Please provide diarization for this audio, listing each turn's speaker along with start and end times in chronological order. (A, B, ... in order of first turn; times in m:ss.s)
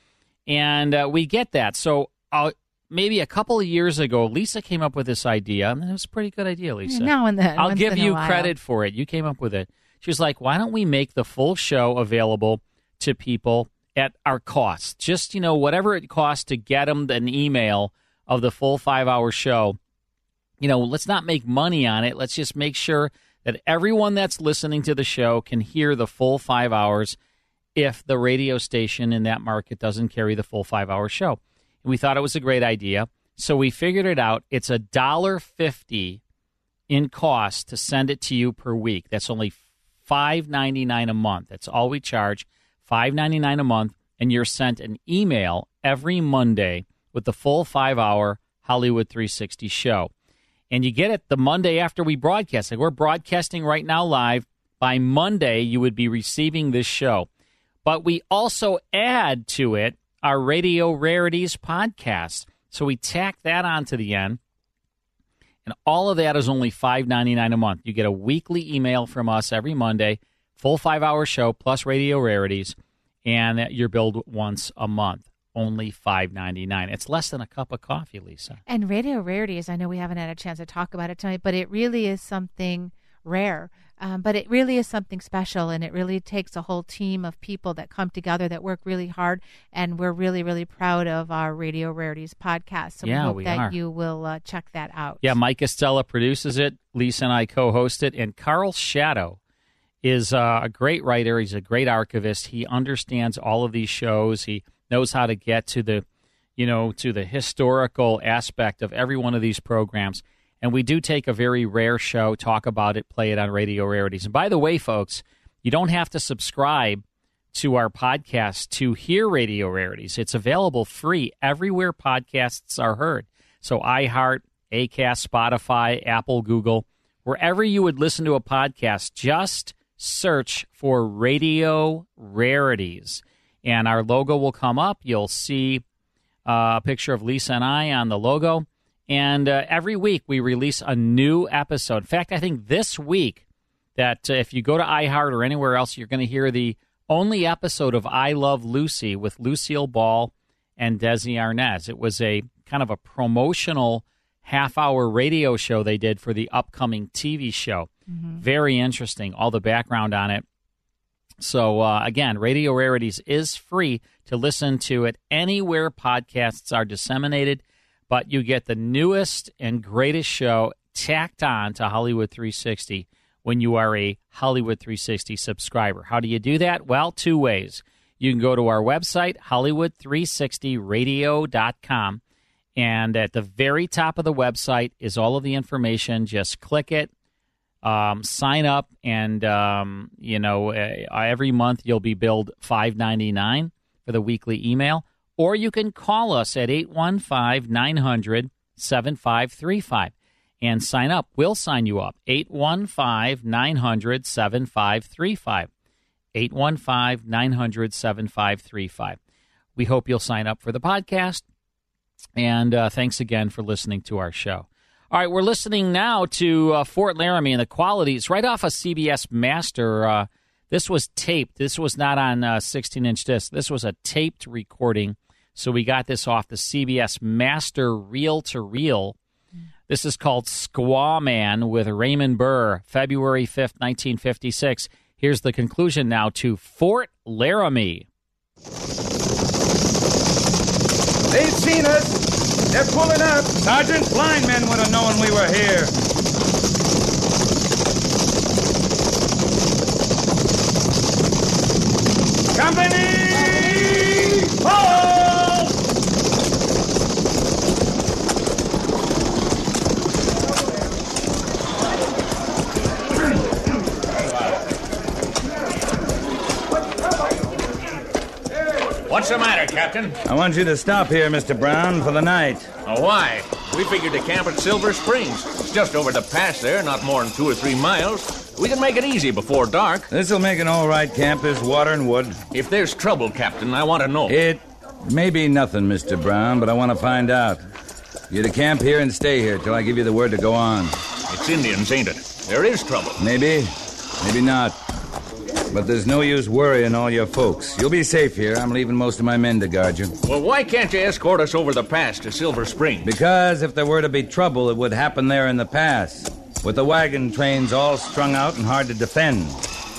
0:00.5-0:19.8 A
0:06.9-0:08.5 B
0:20.6-0:27.2 A
0:27.8-0:36.2 A
0:36.9-0:50.1 A
0:50.7-0:57.3 A
0:57.8-1:04.4 A
1:05.6-1:18.6 A
1:18.7-1:35.3 B
1:33.0-1:33.8 A
1:35.2-1:39.4 A
1:40.0-1:46.0 A
1:46.6-2:15.8 A
2:16.4-2:23.4 A
2:24.0-2:40.4 A
2:38.1-2:38.4 B
2:41.4-3:02.2 A
3:02.8-3:07.1 A
3:07.8-3:25.7 A
3:26.3-3:29.2 A
3:29.8-3:31.4 A
3:32.4-3:49.2 A
3:49.9-3:58.1 A
4:01.3-4:03.5 C
4:03.6-4:05.9 D
4:12.5-4:15.7 D
4:29.0-4:30.2 E
4:30.2-4:32.7 D
4:32.8-4:40.1 E
4:40.1-4:42.4 D
4:42.5-4:44.3 E
4:44.3-4:47.6 D
4:48.3-4:51.0 D
4:51.3-4:53.2 E
4:53.2-4:54.8 D
4:55.7-5:00.2 D
5:00.2-5:03.1 E
5:03.0-5:09.6 D